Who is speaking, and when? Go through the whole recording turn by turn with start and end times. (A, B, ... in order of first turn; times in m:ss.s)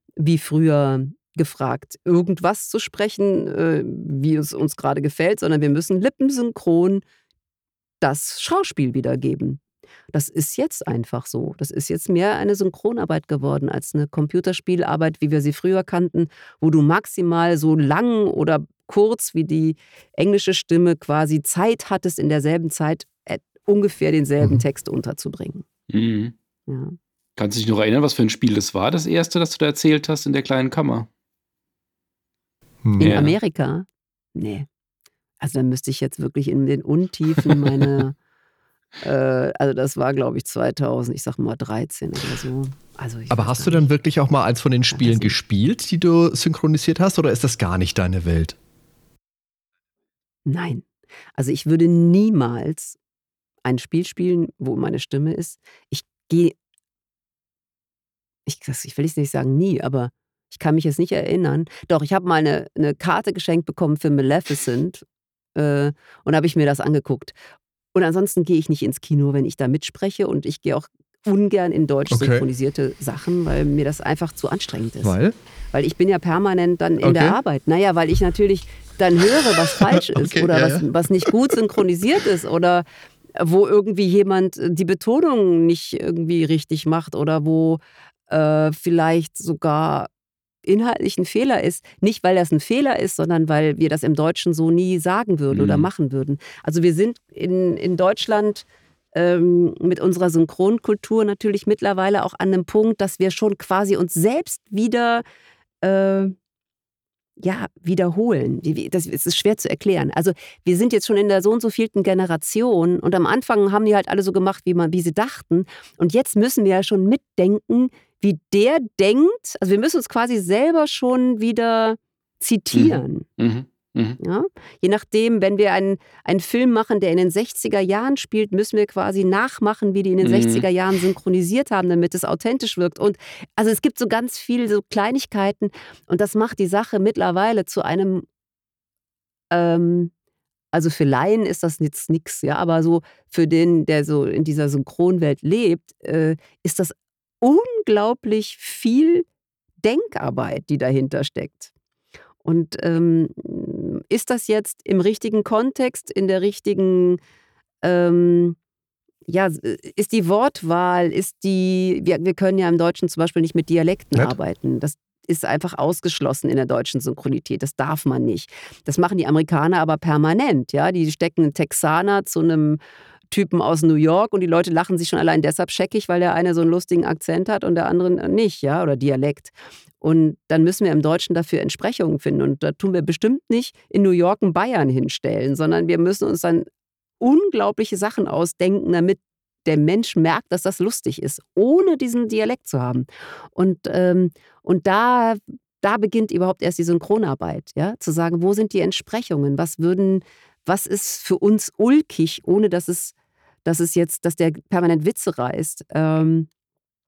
0:00.2-0:07.0 A
0:08.0-0:09.6 A
0:10.1-0:25.6 A
0:25.9-0:26.3 B
0:26.7-0:27.0 A
0:27.4-0:31.1 B
0:32.8-0:33.2 C
0:33.0-0:34.7 A
0:33.0-0:33.4 B
0:35.4-0:38.2 A
0:39.0-0:43.9 A
0:43.3-0:48.6 C
0:44.9-0:45.3 A
0:50.5-0:53.0 A
0:53.6-0:56.6 A
0:58.5-1:07.4 A
1:07.9-1:15.2 A
1:12.1-1:12.4 C
1:15.0-1:15.4 C
1:15.7-1:22.8 A
1:17.0-1:17.4 C
1:20.1-1:21.3 C
1:23.4-1:30.1 A
1:30.6-1:45.2 A
1:35.5-1:35.9 B
1:45.8-1:46.4 A
1:47.4-2:03.3 A
2:02.7-2:04.2 B
2:04.2-2:18.3 A
2:10.2-2:10.7 B
2:19.5-2:20.1 A
2:20.7-2:29.3 A
2:29.8-2:31.7 A
2:32.4-2:37.2 A
2:37.8-2:38.6 A
2:39.3-2:52.8 A
2:53.3-3:06.7 A
3:07.2-3:23.1 A
3:23.6-3:26.5 A